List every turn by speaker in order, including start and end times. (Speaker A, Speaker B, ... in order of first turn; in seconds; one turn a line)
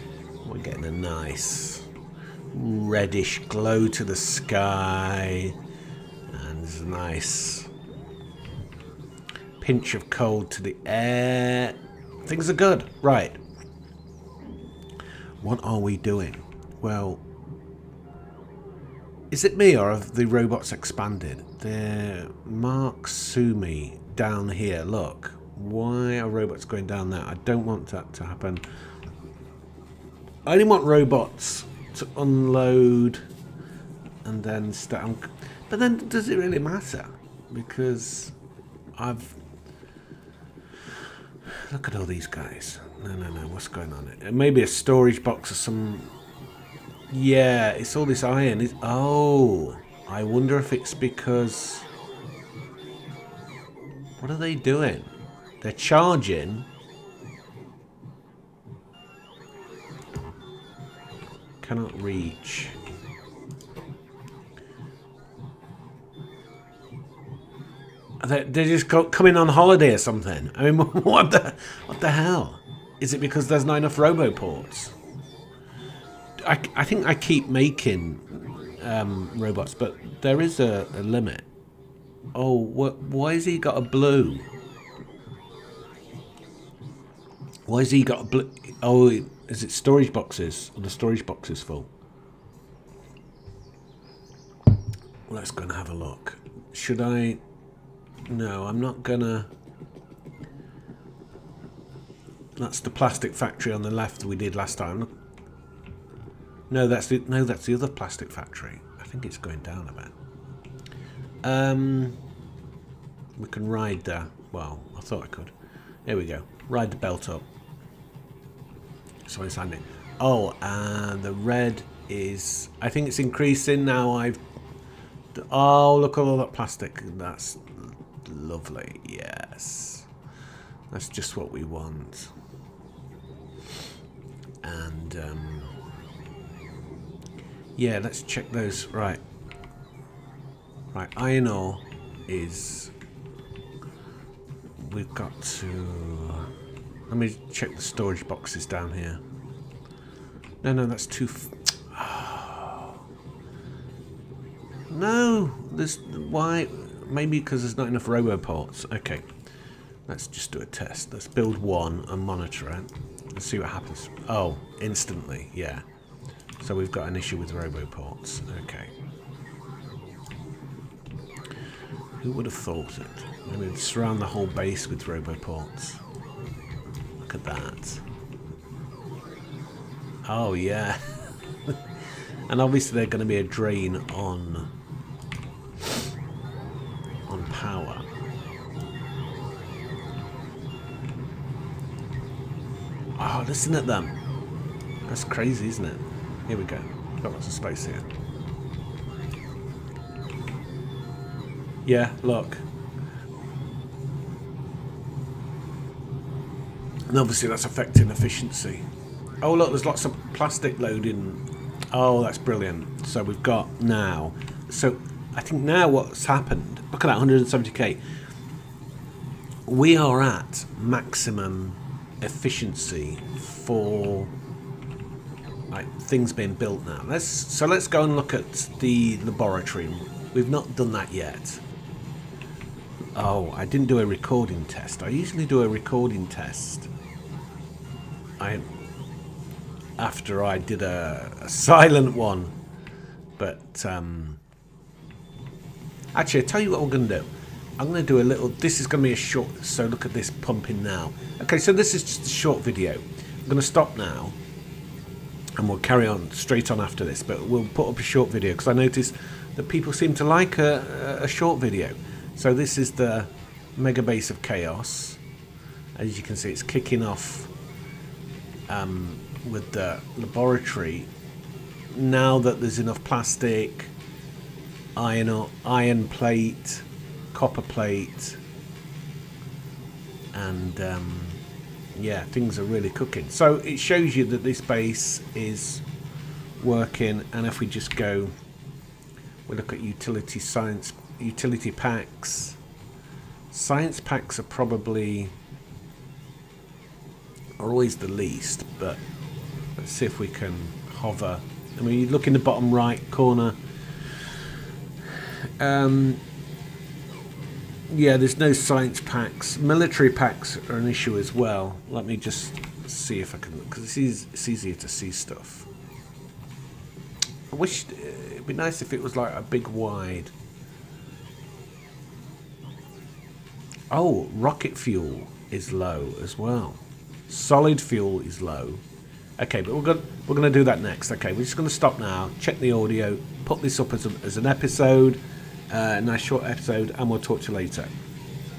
Speaker A: 0.4-1.9
Speaker A: 2.5-5.5
Speaker A: 6.3-7.7
Speaker A: 9.6-13.4
Speaker A: 15.4-17.2
Speaker A: 19.3-28.6
Speaker A: 30.4-33.2
Speaker A: 34.2-38.3
Speaker A: 39.0-39.4
Speaker A: 41.6-46.1
Speaker A: 47.1-51.9
Speaker A: 54.2-56.7
Speaker A: 61.6-62.8
Speaker A: 68.2-74.9
Speaker A: 76.4-81.5
Speaker A: 82.3-84.5
Speaker A: 87.7-91.9
Speaker A: 95.3-97.4
Speaker A: 98.3-99.5
Speaker A: 102.5-105.1
Speaker A: 106.7-110.1
Speaker A: 111.4-112.2
Speaker A: 113.4-115.5
Speaker A: 116.0-117.5
Speaker A: 119.2-124.4
Speaker A: 125.3-130.1
Speaker A: 130.9-132.3
Speaker A: 134.6-135.8
Speaker A: 137.8-139.2
Speaker A: 140.9-142.9
Speaker A: 144.8-146.5
Speaker A: 147.1-149.2
Speaker A: 150.6-153.0
Speaker A: 154.9-159.3
Speaker A: 160.1-165.8
Speaker A: 166.6-168.9
Speaker A: 172.2-176.0
Speaker A: 177.2-178.0
Speaker A: 180.2-181.8
Speaker A: 182.5-184.7
Speaker A: 187.3-188.1
Speaker A: 193.2-194.2
Speaker A: 195.0-198.1
Speaker A: 201.8-202.6
Speaker A: 207.1-208.8
Speaker A: 209.4-218.0
Speaker A: 219.7-224.3
Speaker A: 225.7-231.6
Speaker A: 233.1-236.9
Speaker A: 238.4-238.7
Speaker A: 240.0-242.5
Speaker A: 243.4-244.4
Speaker A: 246.1-254.4
Speaker A: 255.6-265.2
Speaker A: 266.0-267.5
Speaker A: 268.7-271.1
Speaker A: 271.9-273.9
Speaker A: 274.9-278.4
Speaker A: 280.3-281.4
Speaker A: 281.9-285.8
Speaker A: 286.6-288.3
Speaker A: 289.5-292.6
Speaker A: 293.5-295.3
Speaker A: 297.6-299.0
Speaker A: 299.8-303.6
Speaker A: 305.6-306.2
Speaker A: 307.9-315.7
Speaker A: 317.5-320.3
Speaker A: 323.9-328.8
Speaker A: 329.4-337.9